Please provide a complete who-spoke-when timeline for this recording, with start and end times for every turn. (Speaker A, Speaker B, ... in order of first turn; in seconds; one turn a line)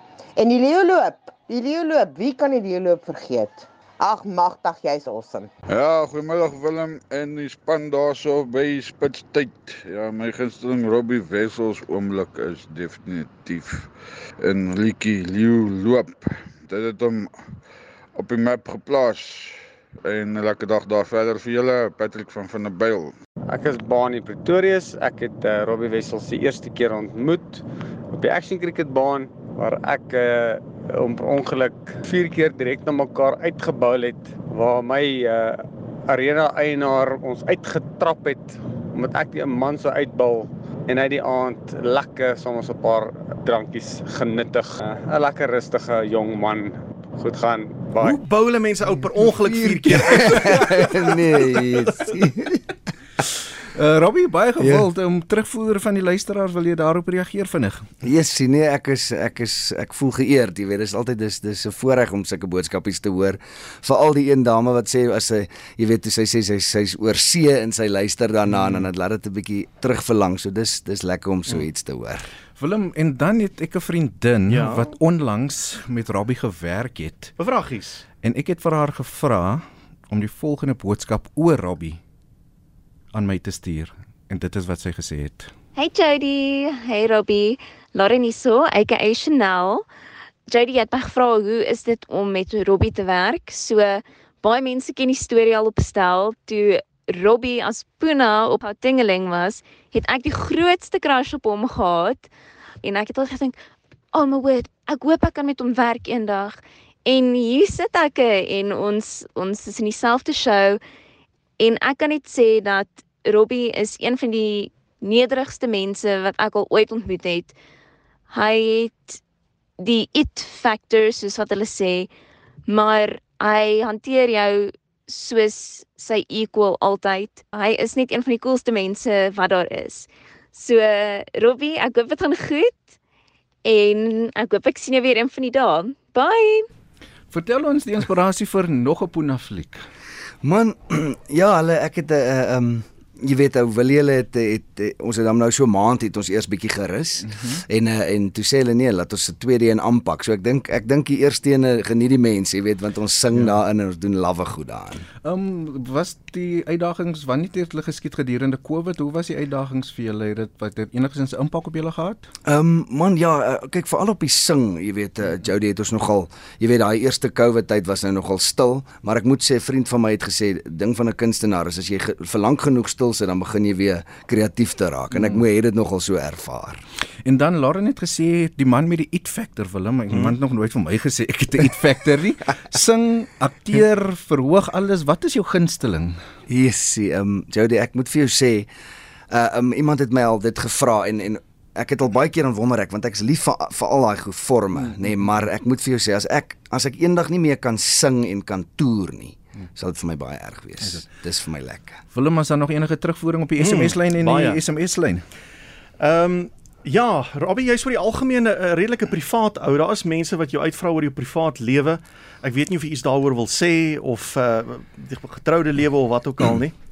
Speaker A: 0.4-5.5
Speaker B: 5.7-13.9
Speaker B: 14.4-17.3
Speaker B: 18.1-23.1
Speaker C: 23.5-48.2
Speaker D: 48.0-51.1
Speaker E: 49.9-52.7
Speaker F: 53.7-57.9
Speaker E: 54.6-54.9
Speaker E: 58.0-72.3
Speaker F: 72.6-77.3
Speaker D: 74.5-74.9
Speaker D: 77.4-78.0
Speaker F: 78.2-82.0
Speaker F: 83.1-85.5
Speaker G: 85.8-89.8
Speaker G: 90.5-102.3
Speaker G: 102.8-103.6
Speaker G: 104.1-110.8
Speaker G: 111.6-117.5
Speaker G: 118.3-119.2
Speaker G: 119.8-122.1
Speaker G: 122.7-132.8
Speaker G: 133.7-136.7
Speaker F: 137.3-139.8
Speaker E: 140.4-155.1
Speaker F: 147.2-147.6
Speaker F: 155.2-162.3
Speaker E: 162.5-176.8
Speaker F: 175.1-175.4
Speaker F: 177.2-186.2
Speaker D: 180.1-180.4
Speaker E: 186.5-188.7
Speaker E: 189.3-202.0
Speaker F: 202.1-205.2
Speaker D: 203.6-204.6
Speaker D: 206.0-216.8